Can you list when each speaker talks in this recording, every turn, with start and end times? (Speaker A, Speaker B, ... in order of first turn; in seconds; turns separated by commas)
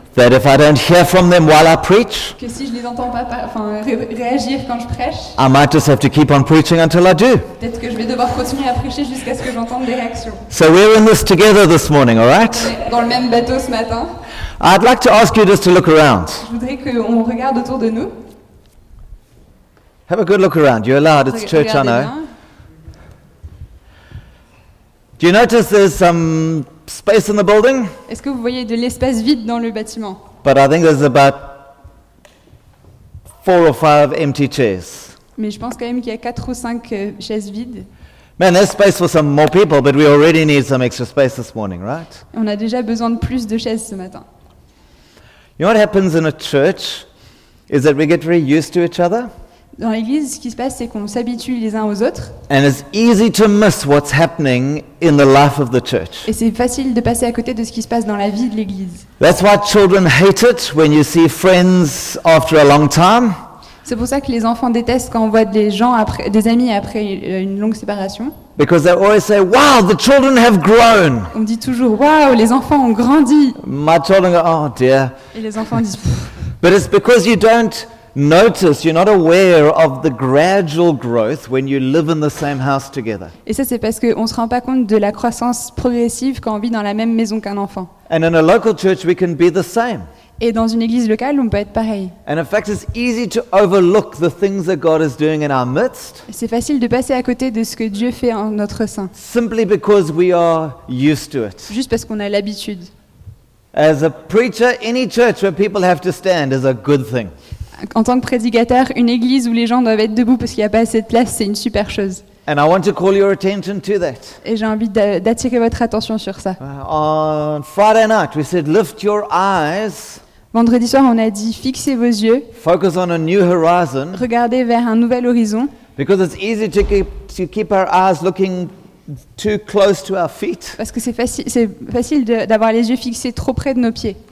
Speaker A: 0.1-2.4, Speaker B: 2.4-5.4, Speaker A: 5.4-7.5, Speaker B: 7.6-10.4, Speaker A: 10.5-12.8, Speaker B: 12.5-14.1, Speaker A: 14.6-16.5, Speaker B: 16.4-18.2, Speaker A: 20.1-22.1, Speaker B: 21.3-22.2, Speaker A: 25.2-27.9, Speaker B: 28.1-30.2, Speaker A: 30.4-31.7, Speaker A: 33.4-35.2, Speaker B: 35.4-37.9, Speaker A: 38.4-42.2, Speaker B: 42.3-44.2, Speaker A: 45.6-47.1, Speaker A: 47.7-49.3, Speaker B: 49.8-52.4, Speaker A: 52.5-56.3, Speaker B: 56.2-59.0, Speaker A: 59.2-63.4, Speaker B: 63.8-68.3, Speaker A: 68.5-71.3, Speaker B: 71.3-73.6, Speaker A: 73.6-75.1, Speaker B: 75.3-76.3, Speaker A: 76.6-83.3, Speaker B: 83.5-87.9, Speaker A: 88.1-90.1, Speaker B: 90.4-92.2, Speaker A: 92.2-96.3, Speaker B: 96.3-99.1, Speaker A: 99.1-101.8, Speaker B: 101.7-102.9, Speaker A: 103.7-107.3, Speaker B: 107.8-112.2, Speaker A: 112.5-114.4, Speaker B: 114.4-116.6, Speaker A: 116.6-120.2, Speaker B: 120.5-122.5, Speaker A: 122.5-124.2, Speaker B: 124.1-125.7, Speaker A: 126.0-128.7, Speaker A: 129.3-130.8, Speaker B: 130.8-134.2